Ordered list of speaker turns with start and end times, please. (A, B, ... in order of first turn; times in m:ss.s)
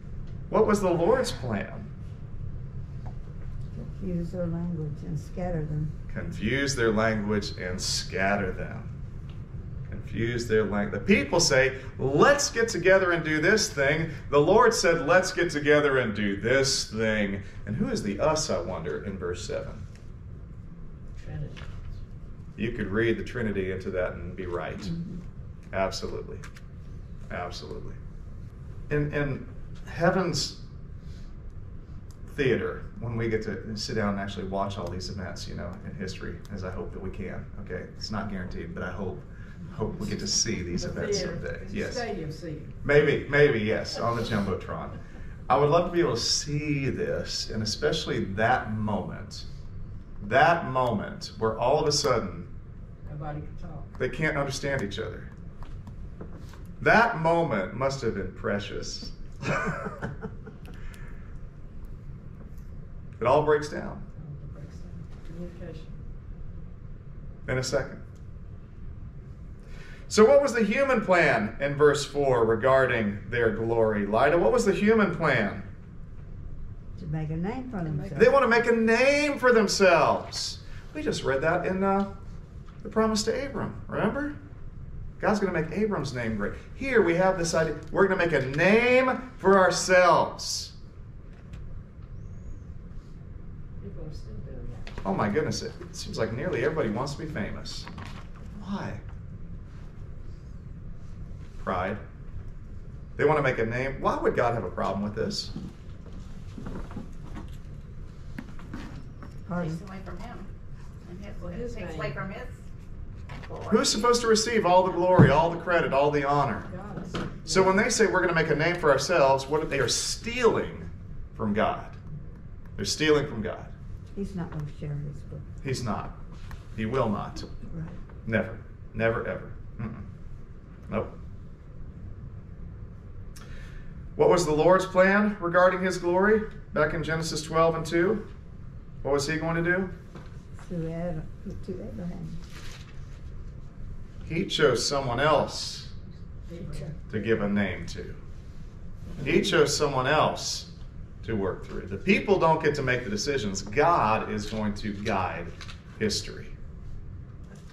0:00.5-0:01.9 A
0:03.7-0:05.9 B
0:06.1-0:08.9 A
0:09.9-0:19.8 A
0:21.1-0:21.7 C
0:22.6-0:24.9 A
0:25.7-0:26.4 A
0:27.3-0:28.0 A
0:28.9-0:30.6 A
0:32.3-0:42.0 A
0:40.7-0:42.8 C
0:42.8-0:45.0 A
0:45.5-0:49.4 A
0:50.2-0:52.5 A
0:53.0-0:53.9 C
0:54.0-0:55.3 A
0:56.8-0:59.8 A
1:03.2-1:04.0 A
1:04.1-1:06.0 C
1:07.4-1:08.0 A
1:10.1-1:15.7 A
1:17.0-1:18.3 B
1:17.8-1:18.2 C
1:18.1-1:22.1 A
1:22.8-1:24.3 A
1:25.2-1:30.7 A
1:33.8-1:34.9 C
1:35.0-1:37.9 A
1:38.6-1:39.0 A
1:41.6-1:42.0 A
1:43.2-1:45.5 A
1:49.4-1:49.8 B
1:49.5-1:50.5 D
1:51.0-1:52.5 D
1:51.4-1:52.2 C
1:53.4-1:54.1 D
1:53.7-1:56.7 A
1:56.6-1:57.8 C
1:57.4-2:02.0 A
2:02.8-2:03.7 A
2:04.1-2:05.4 B
2:05.6-2:06.2 A
2:06.8-2:07.5 A
2:07.7-2:08.0 B
2:08.2-2:10.0 A
2:14.2-2:18.2 A
2:19.0-2:19.9 A
2:20.6-2:22.4 B
2:24.2-2:25.9 A
2:26.4-2:27.1 C
2:27.1-2:28.2 A
2:29.2-2:30.7 A
2:31.2-2:36.5 A